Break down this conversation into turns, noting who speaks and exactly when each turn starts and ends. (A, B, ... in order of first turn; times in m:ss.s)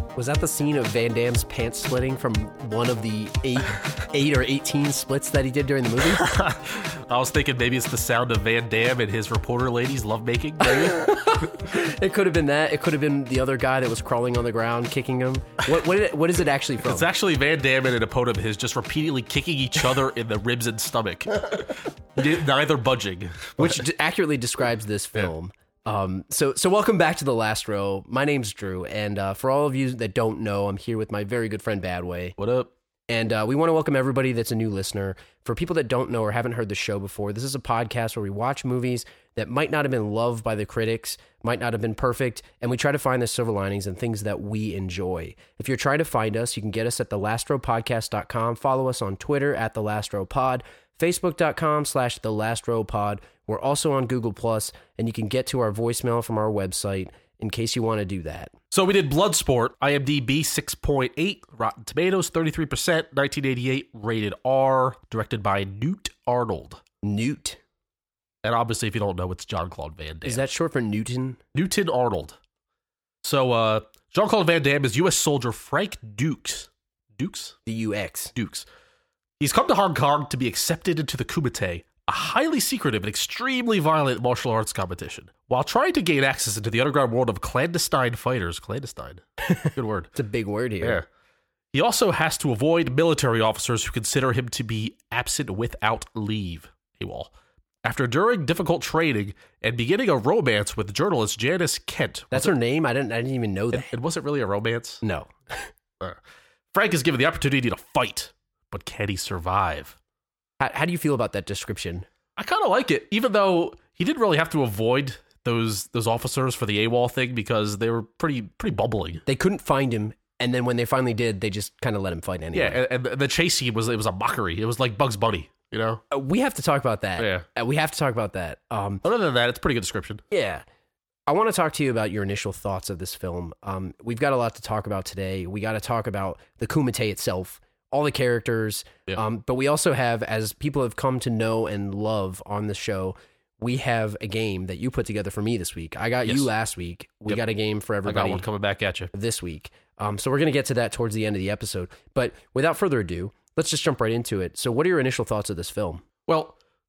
0:00.2-0:06.3 A
0:06.0-0:11.3 B
0:10.6-0:17.1 A
0:16.8-0:23.8 B
0:23.6-0:32.4 A
0:32.4-0:32.7 B
0:33.1-0:58.5 A
0:58.7-1:06.8 B
1:07.0-1:07.6 A
1:08.4-1:10.4 B
1:10.2-1:11.4 A
1:11.6-1:12.4 B
1:13.2-1:17.6 B
1:17.7-1:18.3 A
1:18.4-1:18.7 B
1:19.4-1:30.1 B
1:29.4-1:31.0 A
1:31.7-1:37.3 B
1:37.8-1:42.5 B
1:42.3-1:43.9 A
1:43.7-1:45.0 B
1:45.0-1:45.7 A
1:46.7-1:50.0 B
1:50.6-1:52.0 A
1:52.4-1:59.2 B
1:59.3-2:02.8 A
2:02.5-2:06.0 B
2:06.1-2:09.0 A
2:07.2-2:07.4 B
2:09.0-2:10.2 B
2:10.3-2:10.6 A
2:11.3-2:28.5 A
2:28.0-2:29.1 B
2:29.1-2:36.0 A
2:36.3-2:36.6 B